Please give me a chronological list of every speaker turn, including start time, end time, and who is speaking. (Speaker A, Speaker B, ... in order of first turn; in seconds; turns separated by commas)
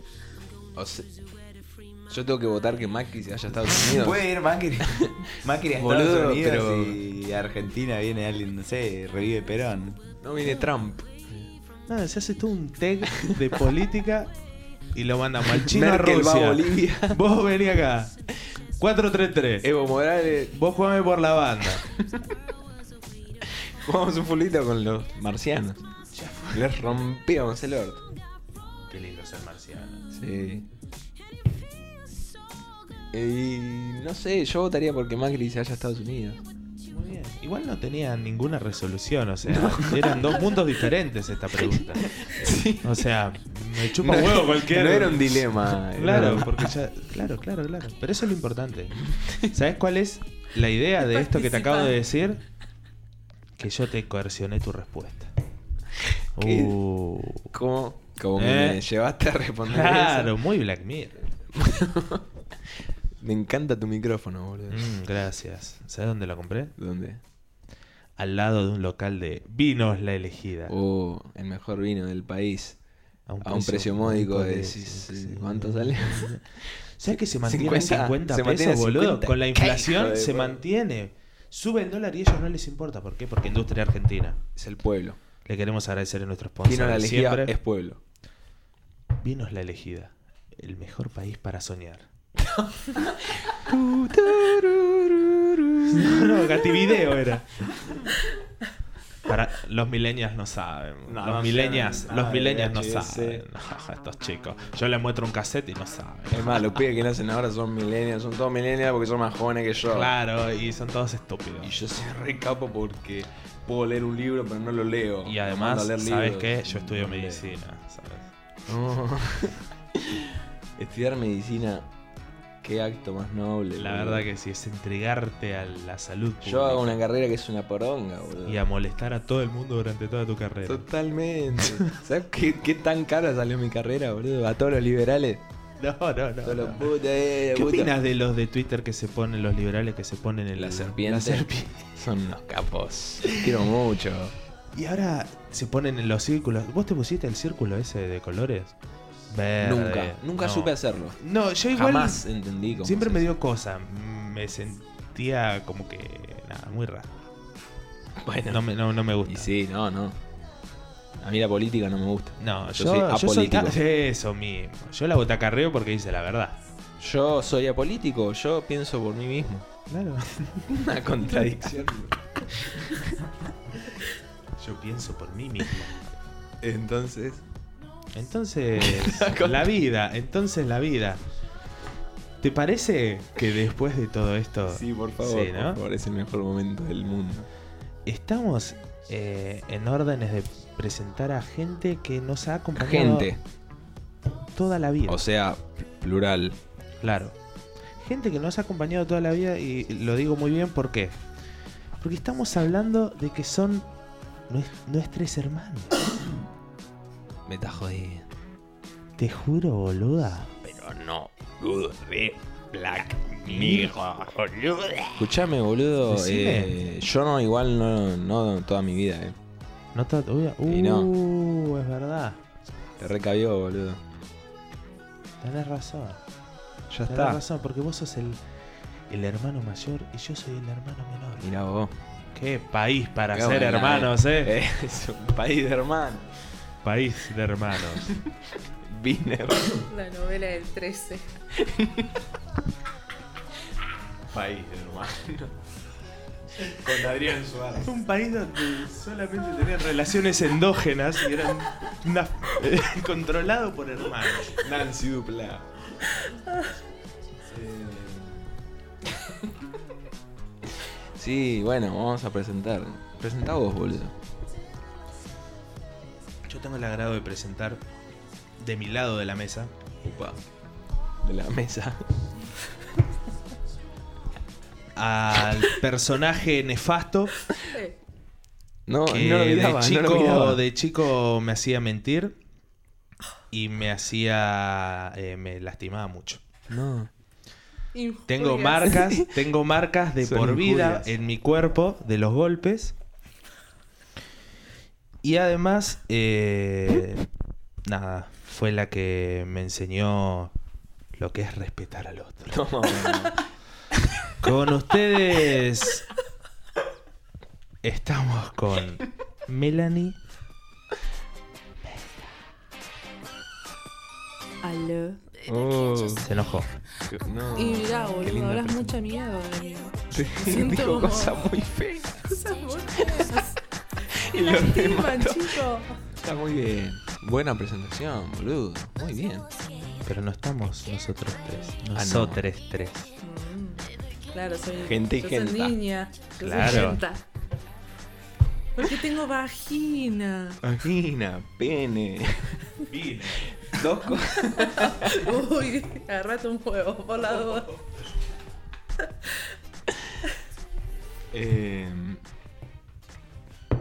Speaker A: 0.8-1.1, Speaker A: 2.1-4.2, Speaker B: 3.9-10.0, Speaker A: 4.8-7.0, Speaker A: 10.2-11.5, Speaker C: 11.9-14.3, Speaker C: 14.9-18.1, Speaker A: 15.6-17.2, Speaker C: 18.8-19.7, Speaker A: 19.6-20.5, Speaker C: 20.5-21.8, Speaker A: 21.9-22.2, Speaker A: 23.5-25.8, Speaker C: 26.1-27.0, Speaker A: 26.5-28.0, Speaker C: 28.9-30.0, Speaker A: 30.1-30.7, Speaker A: 33.1-36.4, Speaker C: 36.9-42.1, Speaker A: 39.5-40.5, Speaker A: 42.0-43.0, Speaker C: 42.8-52.4, Speaker A: 44.0-46.7, Speaker A: 49.1-49.5, Speaker D: 51.0-51.9, Speaker C: 53.6-55.3, Speaker A: 56.4-56.8, Speaker C: 56.4-57.5, Speaker A: 57.5-60.3, Speaker C: 58.4-58.8, Speaker C: 59.6-61.2, Speaker A: 61.5-62.2, Speaker A: 63.2-64.9, Speaker C: 64.7-66.7, Speaker A: 66.8-67.2, Speaker C: 68.2-70.7, Speaker A: 70.7-72.8, Speaker C: 73.3-84.4, Speaker A: 73.4-80.6, Speaker A: 84.5-85.2, Speaker C: 85.5-87.5, Speaker A: 86.6-88.0, Speaker C: 89.2-92.1, Speaker A: 92.4-96.8, Speaker C: 95.9-97.6, Speaker C: 99.2-106.7, Speaker A: 101.0-103.4, Speaker A: 106.3-110.1, Speaker C: 109.9-111.7, Speaker A: 111.6-117.6, Speaker C: 115.2-118.3, Speaker A: 118.7-121.8, Speaker A: 122.6-124.2, Speaker C: 123.8-127.0, Speaker A: 126.4-128.6, Speaker C: 128.4-130.8, Speaker A: 130.7-135.4, Speaker C: 131.6-131.9, Speaker C: 135.8-136.9, Speaker A: 136.4-137.9, Speaker C: 137.5-141.8, Speaker A: 140.6-144.3, Speaker C: 144.7-148.7, Speaker C: 149.3-152.2, Speaker A: 149.6-151.2, Speaker A: 151.7-153.3, Speaker C: 152.8-157.1, Speaker A: 158.2-158.7, Speaker C: 158.5-159.5, Speaker A: 159.2-160.2, Speaker A: 161.2-163.8, Speaker C: 162.4-166.6, Speaker A: 167.0-169.7, Speaker C: 169.9-170.7, Speaker A: 170.7-173.2, Speaker C: 174.6-176.0, Speaker A: 176.6-177.4, Speaker C: 178.1-181.2, Speaker A: 178.8-179.7, Speaker C: 182.4-185.8, Speaker A: 184.7-187.4, Speaker C: 188.1-193.3, Speaker A: 192.7-193.4, Speaker C: 194.6-195.2, Speaker A: 195.1-196.6, Speaker C: 197.0-197.3, Speaker C: 198.0-201.2, Speaker C: 202.0-203.9, Speaker C: 204.5-205.9, Speaker A: 207.5-208.2, Speaker C: 209.2-210.5, Speaker A: 210.6-214.4, Speaker C: 212.8-215.2, Speaker A: 215.1-219.3, Speaker C: 216.1-216.7, Speaker C: 219.9-222.4, Speaker A: 220.7-221.1, Speaker A: 223.0-224.0, Speaker C: 225.4-226.2, Speaker A: 226.9-227.4, Speaker C: 227.1-228.4, Speaker C: 229.1-231.5, Speaker A: 231.4-231.9, Speaker C: 232.3-234.5, Speaker A: 233.3-236.3, Speaker C: 236.8-238.1, Speaker A: 238.8-239.9, Speaker D: 239.9-241.3, Speaker A: 241.6-242.2, Speaker A: 244.3-245.5, Speaker A: 246.6-247.9, Speaker C: 247.8-254.6, Speaker A: 254.5-255.7, Speaker A: 257.5-258.4, Speaker A: 259.2-259.4, Speaker A: 261.1-264.1, Speaker C: 266.5-267.8, Speaker C: 268.6-269.7, Speaker A: 270.0-270.4, Speaker A: 271.2-272.0, Speaker C: 274.9-277.4, Speaker D: 277.7-278.0, Speaker A: 278.9-280.6, Speaker C: 279.1-282.4, Speaker C: 283.5-286.4, Speaker A: 286.7-287.1, Speaker D: 287.9-288.9, Speaker C: 288.3-292.9, Speaker A: 288.9-289.2, Speaker A: 290.2-291.1, Speaker C: 295.2-297.2, Speaker C: 297.9-300.5, Speaker C: 301.1-302.6, Speaker A: 302.5-303.4, Speaker C: 304.4-306.0, Speaker C: 307.8-310.2, Speaker D: 314.6-315.3, Speaker A: 315.4-316.3, Speaker C: 316.2-316.7, Speaker A: 317.1-319.0, Speaker D: 317.6-321.4, Speaker A: 320.1-322.3, Speaker D: 322.3-323.6, Speaker A: 322.9-323.3, Speaker A: 324.1-325.7, Speaker D: 324.4-326.0, Speaker A: 326.2-329.5, Speaker C: 330.1-333.1, Speaker A: 331.9-332.4, Speaker D: 333.2-337.2, Speaker A: 334.8-335.8, Speaker C: 336.4-337.0, Speaker D: 338.8-340.6, Speaker A: 340.6-342.7, Speaker C: 342.9-343.5, Speaker A: 343.6-345.2, Speaker D: 344.6-347.8, Speaker A: 351.3-352.2